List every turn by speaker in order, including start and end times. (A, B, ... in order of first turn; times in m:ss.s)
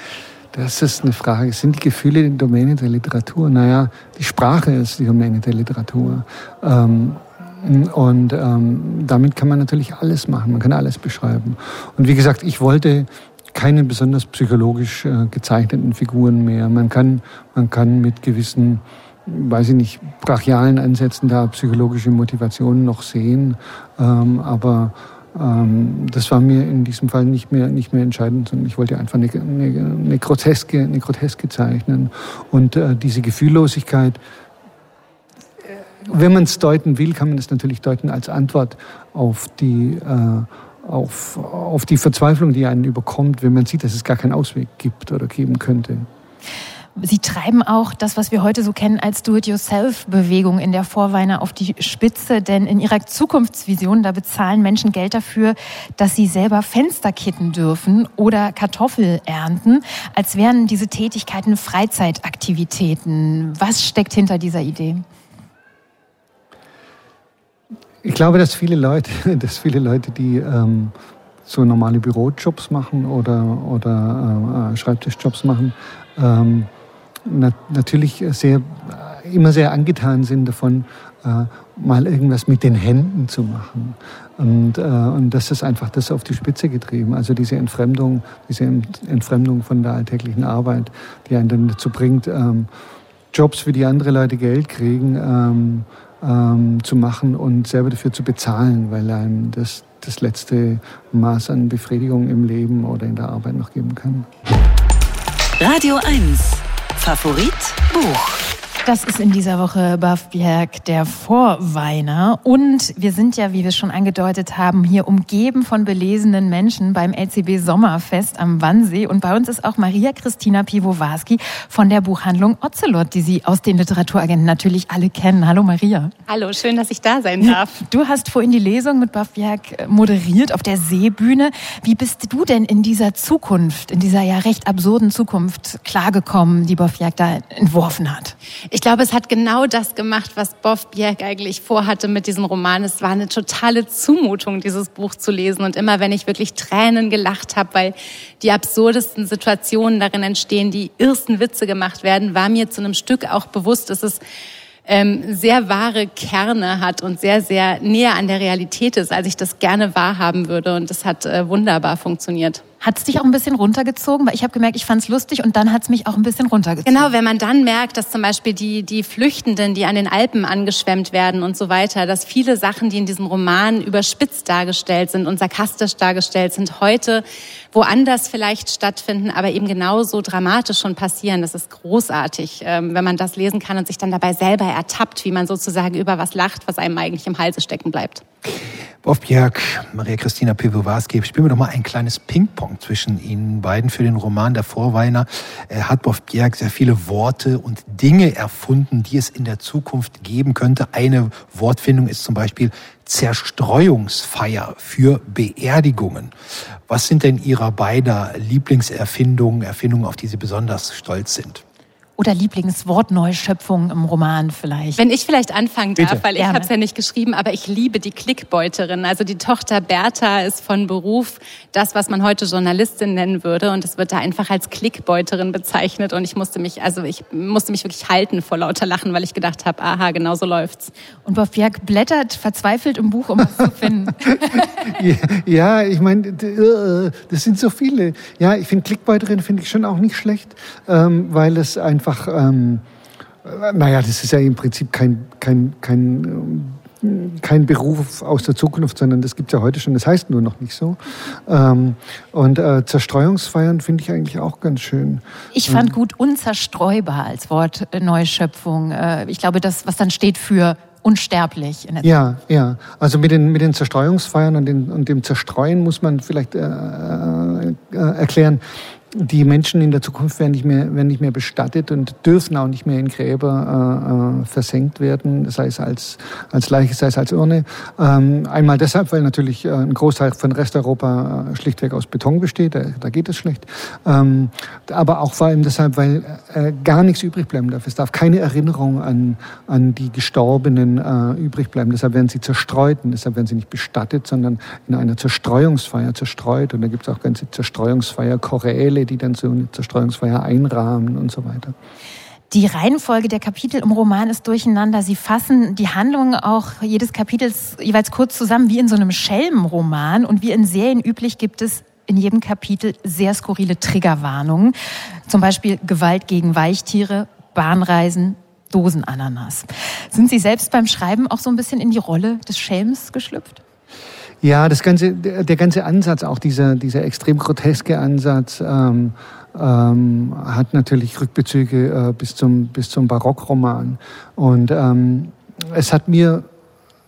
0:00.5-0:34.2 A
0:35.7-0:46.1 A
0:47.0-1:05.0 B
1:08.0-1:10.9 A
1:11.4-1:16.7 A
1:17.2-1:32.7 A
1:33.3-1:44.3 A
1:45.6-1:48.4 C
1:48.8-2:06.1 B
2:06.3-2:07.8 D
2:07.4-2:18.3 B
2:18.7-2:34.2 D
2:34.8-2:42.6 D
2:42.8-2:47.1 B
2:46.8-3:08.2 D
3:09.0-3:26.3 E
3:26.9-3:31.6 E
3:32.2-3:35.0 B
3:35.0-3:50.9 D
3:36.3-3:36.7 B
3:51.2-3:54.8 B
3:54.5-4:02.8 A
4:03.4-4:15.9 A
4:15.5-4:22.1 B
4:22.0-5:01.7 A
5:02.5-5:14.7 B
5:15.3-5:23.6 B
5:24.4-5:36.5 A